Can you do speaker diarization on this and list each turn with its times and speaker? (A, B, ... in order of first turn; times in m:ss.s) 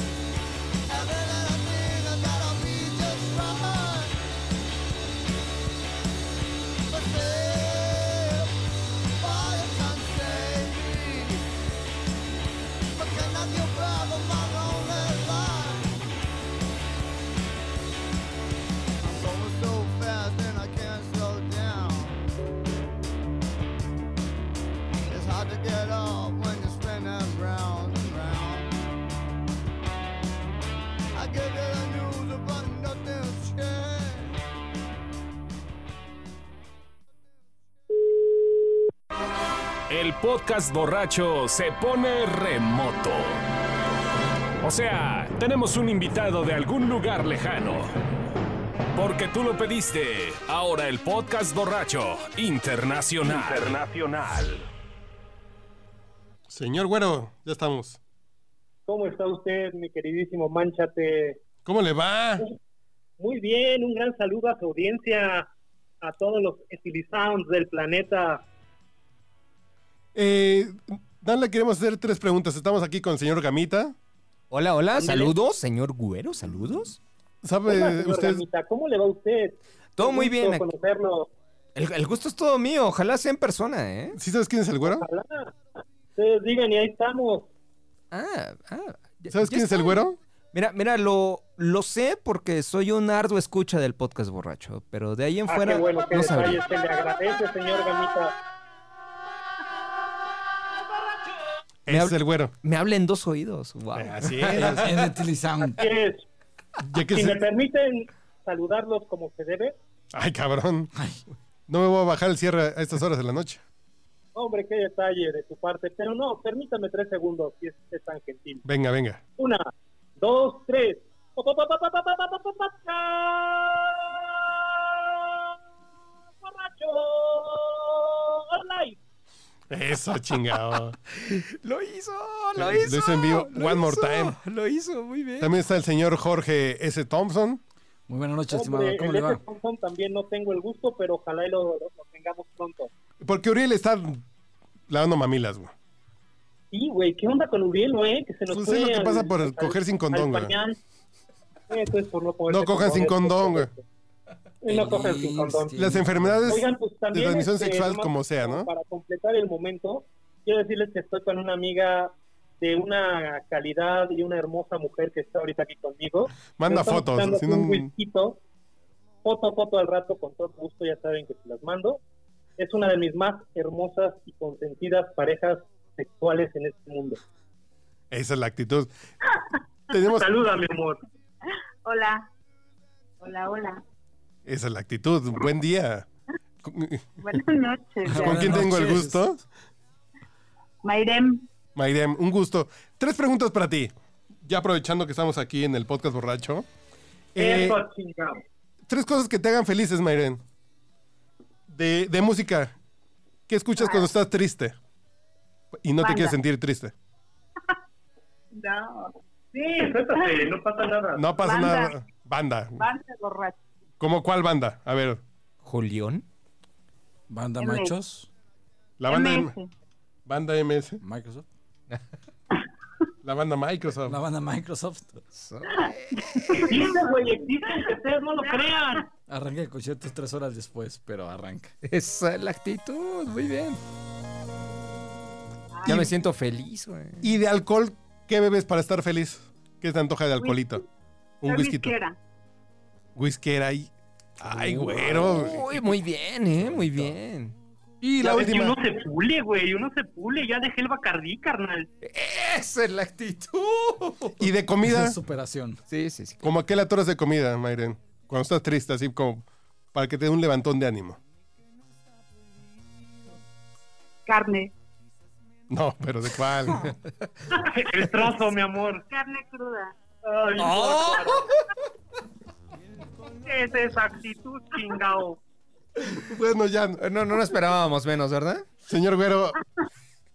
0:00.9-0:04.1 A
0:06.9-0:08.5 A
0:09.2-0:11.4 A
0:13.0-0:16.0 A
0:19.0-0:22.2 A
0:25.1-0:28.7 A
0:31.1-0:34.3 A
0:39.9-0:43.4 B
0:44.6-0:47.9 B
0:48.9-0:54.7 B
0:56.5-0:58.0 C
0:58.9-1:01.4 D
1:01.6-1:02.4 C
1:03.2-1:05.5 D
1:06.0-1:08.4 D
1:10.2-1:14.0 C
1:14.5-1:17.0 E
1:15.0-1:15.4 D
1:17.4-1:18.4 C
1:17.6-1:21.3 D
1:20.0-1:20.7 E
1:21.8-1:24.2 E
1:24.2-1:25.1 C
1:24.8-1:25.5 D
1:26.2-1:27.5 D
1:28.1-1:36.6 E
1:29.3-1:30.2 C
1:35.5-1:38.4 D
1:41.9-1:42.5 C
1:41.9-1:44.9 E
1:44.0-1:45.0 C
1:44.6-1:45.9 F
1:45.8-1:46.3 D
1:46.8-1:47.4 C
1:47.0-1:49.8 D
1:50.1-1:50.9 C
1:51.7-1:53.6 C
1:54.4-1:58.6 D
1:58.6-1:59.2 C
1:59.4-2:05.5 D
2:06.4-2:09.0 D
2:09.7-2:11.0 C
2:11.1-2:15.6 E
2:12.6-2:14.4 C
2:15.4-2:17.6 C
2:18.1-2:19.4 F
2:18.5-2:22.9 D
2:23.2-2:24.2 C
2:24.9-2:25.7 C
2:26.7-2:30.8 D
2:28.5-2:30.6 C
2:31.7-2:33.8 D
2:32.5-2:33.7 C
2:34.6-2:35.8 D
2:34.7-2:36.6 F
2:35.8-2:38.7 C
2:36.5-2:48.4 D
2:46.5-2:47.9 C
2:49.2-2:52.0 D
2:52.6-2:57.2 D
2:58.1-2:58.9 C
2:59.9-3:00.5 C
3:00.1-3:01.0 D
3:01.8-3:02.3 G
3:03.2-3:03.8 G
3:04.5-3:06.1 C
3:06.6-3:07.4 C
3:07.2-3:08.5 G
3:08.0-3:09.2 F
3:08.1-3:09.4 C
3:10.8-3:11.5 G
3:11.8-3:16.7 C
3:17.4-3:17.8 C
3:17.4-3:18.4 D
3:18.9-3:20.4 C
3:21.7-3:22.8 C
3:23.5-3:24.8 C
3:23.8-3:24.1 G
3:25.8-3:26.9 C
3:26.0-3:26.4 G
3:28.5-3:29.1 G
3:29.5-3:31.3 D
3:29.8-3:30.4 G
3:31.2-3:32.9 C
3:31.4-3:32.0 G
3:32.8-3:33.6 G
3:34.0-3:35.2 C
3:35.6-3:36.2 E
3:37.3-3:38.3 F
3:37.6-3:38.0 G
3:39.0-3:39.6 C
3:39.1-3:39.7 G
3:40.3-3:41.0 C
3:41.0-3:41.5 F
3:43.2-3:44.2 C
3:44.1-3:45.2 F
3:45.3-3:46.9 E
3:45.7-3:47.1 G
3:46.7-3:49.0 D
3:48.4-3:48.9 G
3:49.3-3:51.8 F
3:51.8-3:53.8 E
3:55.8-3:56.0 G
3:55.8-3:57.3 E
3:57.2-4:00.8 C
4:00.4-4:00.8 G
4:01.4-4:02.0 C
4:01.4-4:02.2 G
4:03.2-4:05.8 C
4:04.6-4:05.0 F
4:05.0-4:07.6 E
4:06.7-4:07.1 C
4:08.0-4:08.8 C
4:08.2-4:11.9 D
4:12.0-4:14.5 E
4:14.4-4:15.2 C
4:14.8-4:15.8 F
4:15.9-4:16.6 E
4:16.4-4:21.2 C
4:24.3-4:24.7 G
4:25.7-4:27.0 C
4:27.5-4:29.0 D
4:29.1-4:29.9 G
4:30.2-4:31.5 D
4:30.6-4:31.4 E
4:33.4-4:35.4 D
4:36.2-4:37.0 C
4:37.0-4:38.7 E
4:38.8-4:39.6 C